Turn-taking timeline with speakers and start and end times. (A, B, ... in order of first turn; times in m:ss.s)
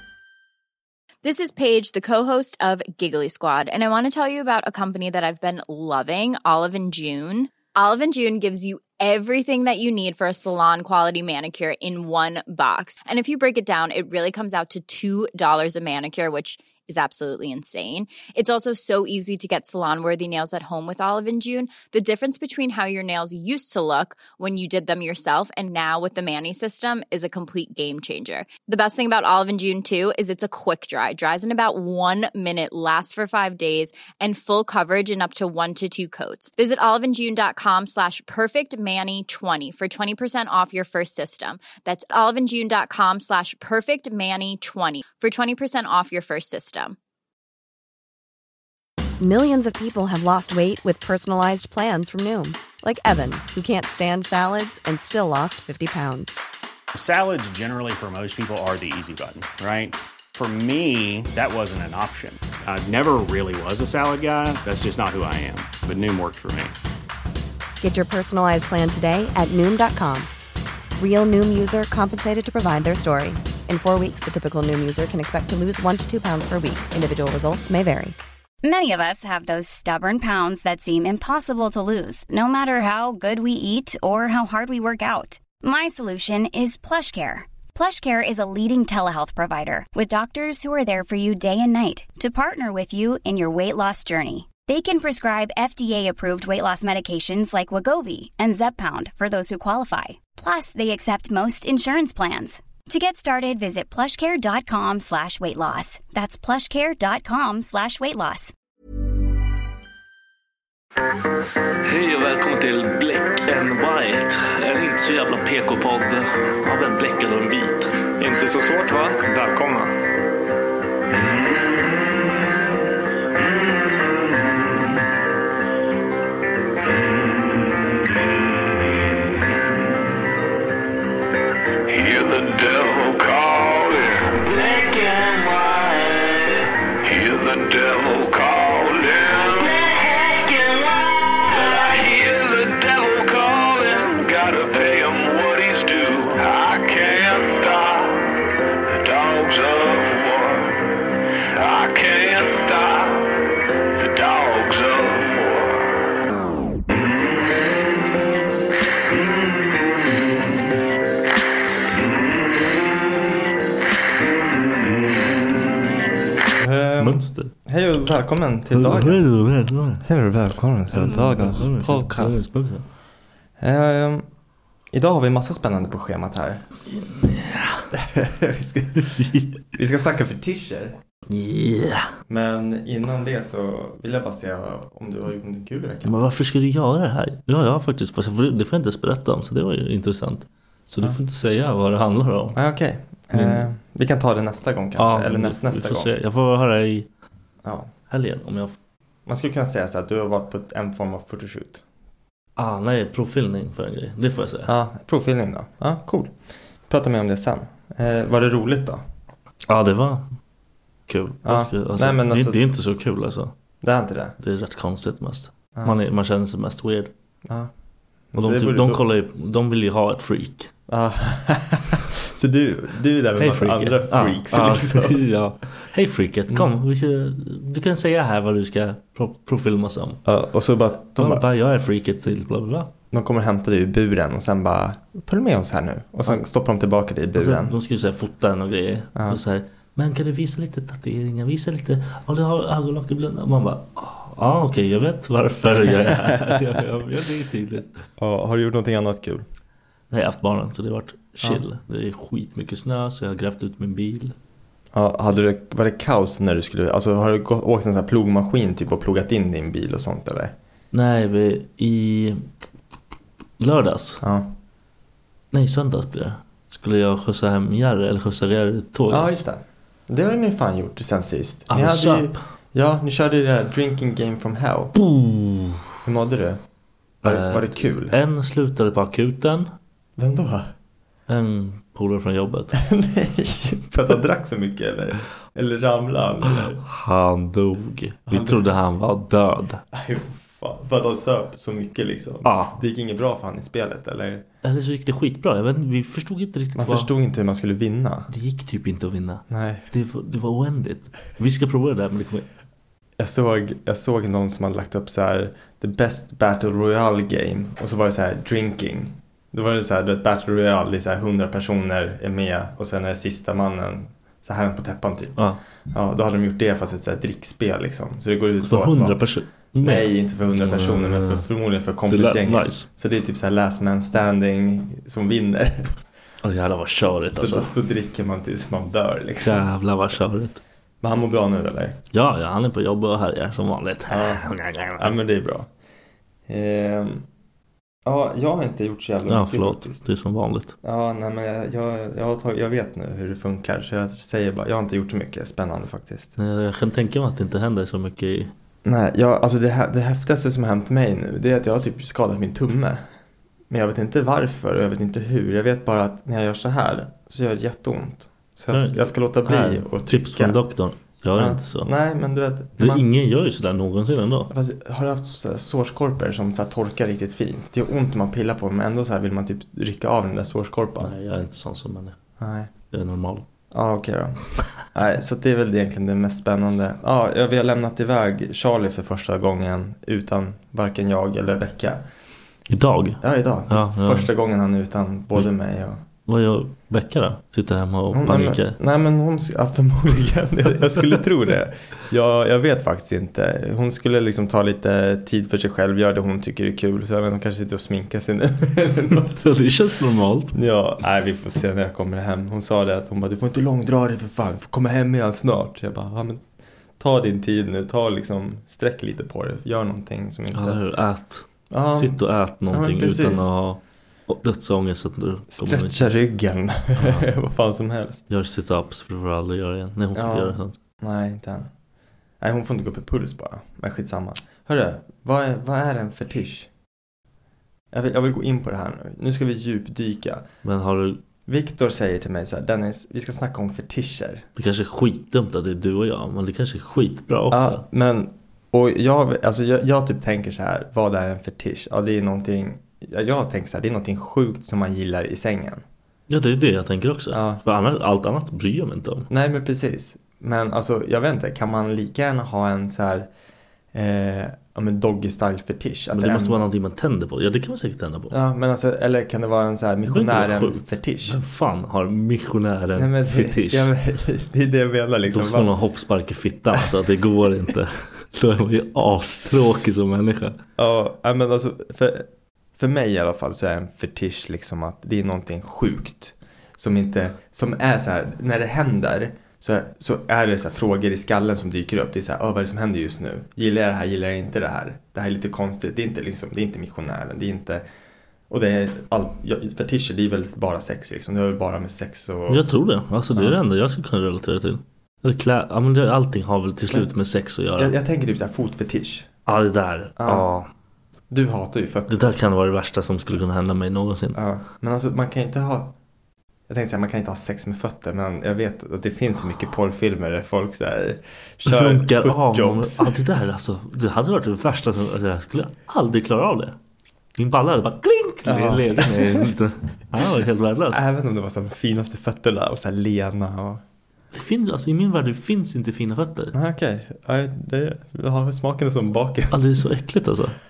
0:01.2-0:47.0 A
0:49.2-0:56.4 B
0:56.9-1:06.7 C
1:07.8-1:10.3 B
1:11.0-1:18.2 B
1:18.6-1:48.5 D
1:51.8-1:58.0 E
1:58.2-1:59.9 F
1:58.4-1:59.0 G
2:01.4-2:01.6 F
2:08.8-2:09.4 F
2:11.9-2:28.3 F
2:28.8-2:30.8 F
2:31.5-2:36.2 F
2:42.0-2:42.5 F
2:46.6-2:49.3 G
2:47.0-2:47.5 E
2:48.7-2:50.0 E
2:50.0-2:52.4 G
2:50.9-2:52.8 E
2:53.6-2:54.2 G
2:54.9-2:57.3 G
2:57.1-2:57.9 E
2:57.9-3:01.0 G
2:59.0-2:59.6 E
3:01.3-3:02.1 E
3:02.3-3:06.2 G
3:06.0-3:12.6 E
3:12.5-3:16.1 G
3:13.3-3:13.7 E
3:15.0-3:17.1 E
3:17.6-3:17.9 G
3:18.1-3:18.8 E
3:19.2-3:21.8 G
3:22.6-3:24.7 E
3:24.7-3:26.3 G
3:26.9-3:29.0 G
3:29.7-3:30.3 E
3:31.1-3:33.5 E
3:31.4-3:32.7 G
3:33.8-3:34.4 G
3:34.4-3:37.1 E
3:37.4-3:37.7 G
3:38.3-3:39.0 G
3:38.4-3:40.7 E
3:40.9-3:45.2 G
3:43.4-3:50.2 E
3:50.2-3:51.4 G
3:51.2-3:52.9 E
3:53.1-3:57.7 G
3:57.3-4:07.9 E
3:59.1-3:59.4 G
4:05.7-4:06.6 G
4:08.2-4:09.4 G
4:10.1-4:14.3 E
4:14.9-4:20.5 G
4:20.9-4:22.4 E
4:23.6-4:24.2 E
4:24.2-4:24.5 G
4:25.5-4:29.3 E
4:29.1-4:34.9 G
4:31.7-4:32.4 E
4:34.9-4:35.9 E
4:36.0-4:36.6 G
4:37.2-4:39.7 E
4:37.2-4:38.1 G
4:40.2-4:40.7 G
4:41.3-4:42.8 E
4:42.7-4:46.8 G
4:46.5-4:49.8 E
4:48.3-4:48.7 G
4:49.9-4:54.4 G
4:52.4-4:52.8 E
4:54.6-4:57.1 E
4:56.8-4:58.3 G
4:58.3-5:02.4 E
4:59.5-4:59.9 G
5:03.2-5:19.2 G
5:18.6-5:21.5 E
5:19.8-5:25.9 G
5:22.1-5:22.9 E
5:26.4-5:27.7 E
5:27.3-5:29.7 G
5:29.4-5:30.6 E
5:31.0-5:32.0 G
5:32.1-5:35.1 E
5:34.1-5:35.7 G
5:36.5-5:37.3 G
5:38.0-5:40.0 G
5:39.3-5:40.7 E
5:40.8-5:46.4 G
5:46.4-5:48.5 E
5:48.8-5:53.0 G
5:53.7-6:00.6 G
5:58.7-6:01.9 E
6:01.4-6:03.0 G
6:02.8-6:04.5 E
6:04.5-6:11.1 G
6:11.0-6:12.2 E
6:12.4-6:12.7 G
6:12.9-6:13.4 E
6:13.7-6:22.0 G
6:22.7-6:24.3 E
6:23.2-6:26.0 G
6:26.2-6:28.8 E
6:28.1-6:39.5 G
6:39.3-6:40.6 E
6:40.5-6:46.4 G
6:47.0-6:50.8 G
6:50.5-6:56.1 E
6:51.7-6:53.5 G
6:55.5-6:58.2 G
6:57.0-6:57.3 E
6:58.3-7:00.7 E
7:00.1-7:01.7 G
7:02.4-7:06.7 G
7:07.9-7:10.4 G
7:10.6-7:11.2 E
7:11.4-7:14.5 G
7:14.6-7:17.8 E
7:17.5-7:25.8 G
7:26.3-7:29.3 E
7:27.3-7:27.6 G
7:29.3-7:33.3 G
7:33.9-7:36.6 G
7:36.1-7:38.3 E
7:38.3-7:41.4 G
7:40.0-7:43.9 E
7:43.0-7:45.7 G
7:45.3-7:50.6 E
7:50.8-8:07.8 G
8:08.5-8:12.7 G
8:12.5-8:17.9 E
8:13.3-8:13.6 G
8:17.8-8:19.4 G
8:19.4-8:20.7 E
8:20.2-8:20.4 G
8:21.3-8:22.2 G
8:22.1-8:24.4 E
8:24.3-8:25.9 G
8:26.7-8:33.2 G
8:31.6-8:36.8 E
8:37.4-8:41.0 E
8:38.4-8:39.5 G
8:40.9-8:43.8 G
8:44.3-8:46.5 E
8:46.5-8:49.6 G
8:49.5-8:50.5 E